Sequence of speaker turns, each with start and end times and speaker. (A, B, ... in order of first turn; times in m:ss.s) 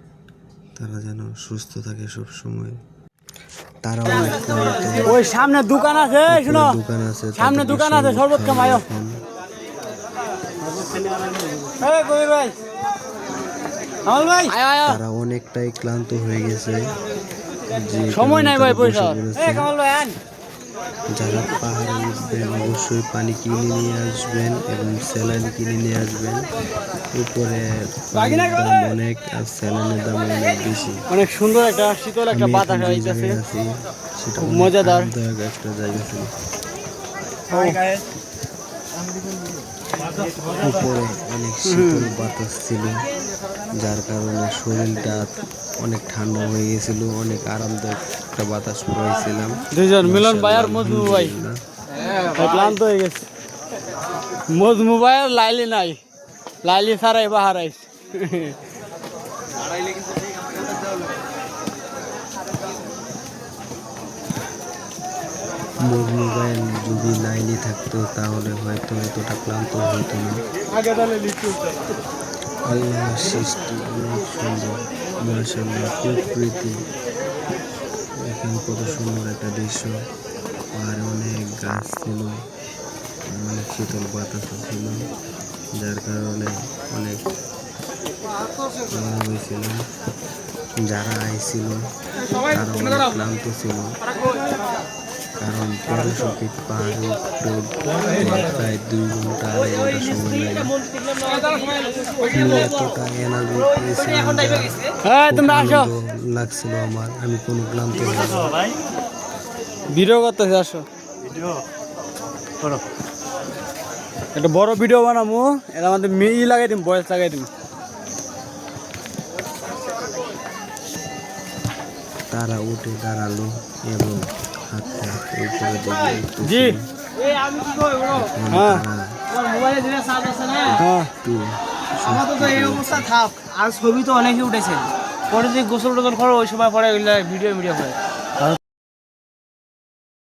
0:00.8-0:02.8 A
0:03.8-0:05.2 A
0:05.0-0:06.8 B
0:06.3-0:09.1 A
0:07.3-0:08.8 B
0:11.6-0:12.5 B
0:14.1-0:15.0 B
0:14.8-0:16.9 A
0:17.7-0:19.7 A
0:18.1-0:20.2 B
0:21.1-0:26.5 A
0:27.1-0:31.0 A
0:31.1-0:33.4 B
0:32.3-0:36.3 A
0:34.4-0:35.1 B
0:37.5-0:38.0 B
0:40.6-0:43.0 A
0:41.7-0:42.1 B
0:43.7-0:51.6 A
0:49.7-0:51.4 B
0:52.2-0:53.2 B
0:54.5-0:56.0 B
0:56.6-0:58.6 B
1:05.8-1:10.4 A
1:12.7-1:16.8 A
1:18.2-1:19.9 A
1:20.7-1:22.3 A
1:23.3-1:25.0 A
1:25.8-1:27.2 A
1:28.9-1:29.8 A
1:30.8-1:31.8 A
1:32.4-1:33.9 A
1:35.4-1:40.7 A
1:42.3-1:48.5 A
1:45.0-1:45.9 B
1:49.9-1:50.8 B
1:54.3-1:57.5 B
2:02.3-2:06.9 A
2:06.4-2:06.7 B
2:07.5-2:07.9 C
2:08.0-2:09.2 A
2:08.5-2:08.8 B
2:09.5-2:10.6 C
2:10.5-2:13.2 A
2:10.7-2:11.1 B
2:12.3-2:18.0 C